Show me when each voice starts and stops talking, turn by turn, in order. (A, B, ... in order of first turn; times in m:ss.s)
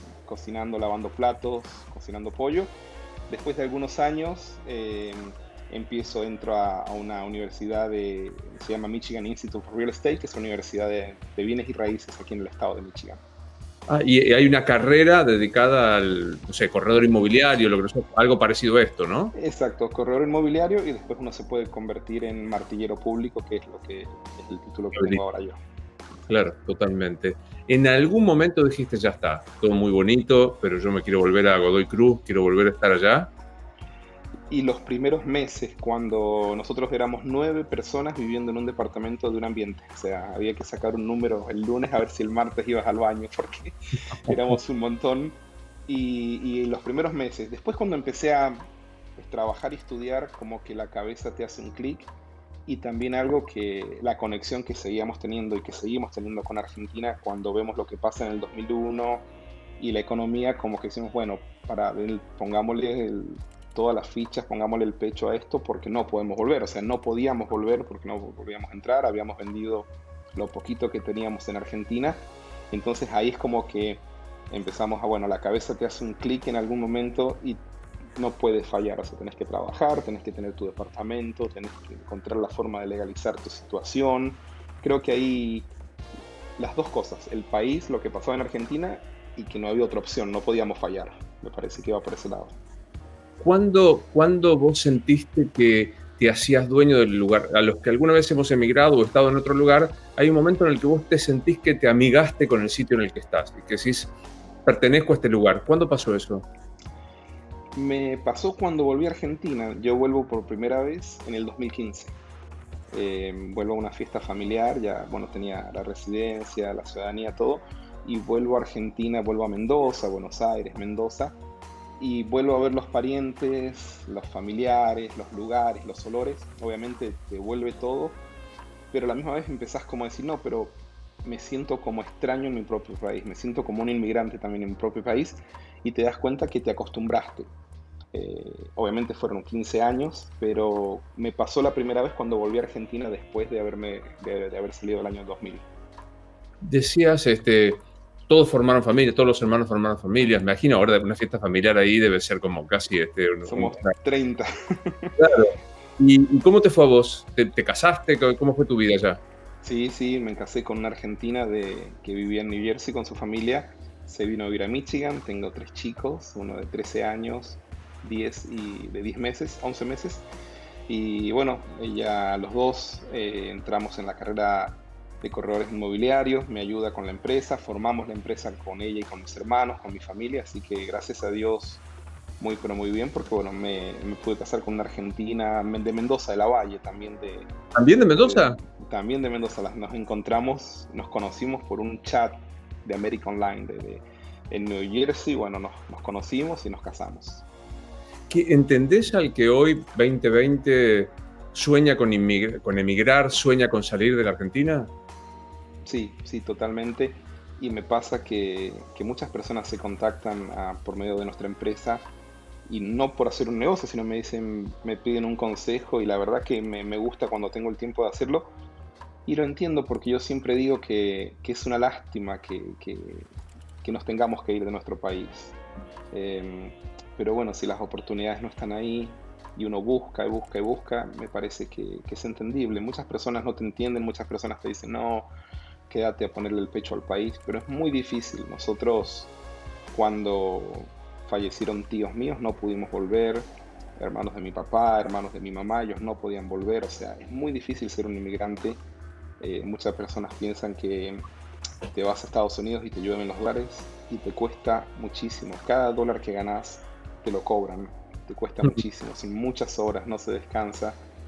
0:00.2-0:02.7 A
0:03.3-0:13.2 A
0:13.9-0:19.3 B
0:19.3-0:25.6 A
0:25.0-0:25.2 B
0:26.3-0:33.3 B
0:34.5-0:52.1 A
0:52.7-0:59.3 A
0:59.8-1:17.6 A
1:18.2-1:25.7 A
1:26.6-1:32.6 A
1:33.4-1:44.1 B
1:44.6-1:46.5 B
1:47.7-1:52.2 A
1:52.9-2:01.4 A
2:02.0-2:08.2 A
2:08.9-2:17.5 A
2:18.1-2:25.6 A
2:26.6-2:33.9 B
2:33.4-2:35.2 A
2:35.2-2:39.2 B
2:39.6-2:50.3 A
2:50.9-3:01.8 A
3:02.4-3:07.5 A
3:07.8-3:08.6 B
3:08.2-3:17.5 A
3:18.3-3:24.9 B
3:25.8-3:32.1 A
3:32.7-3:38.5 A
3:39.3-3:43.3 A
3:43.8-3:45.6 A
3:46.1-3:55.3 A
3:55.9-3:59.3 A
3:59.9-4:08.8 A
4:09.4-4:11.2 A
4:11.9-4:21.0 A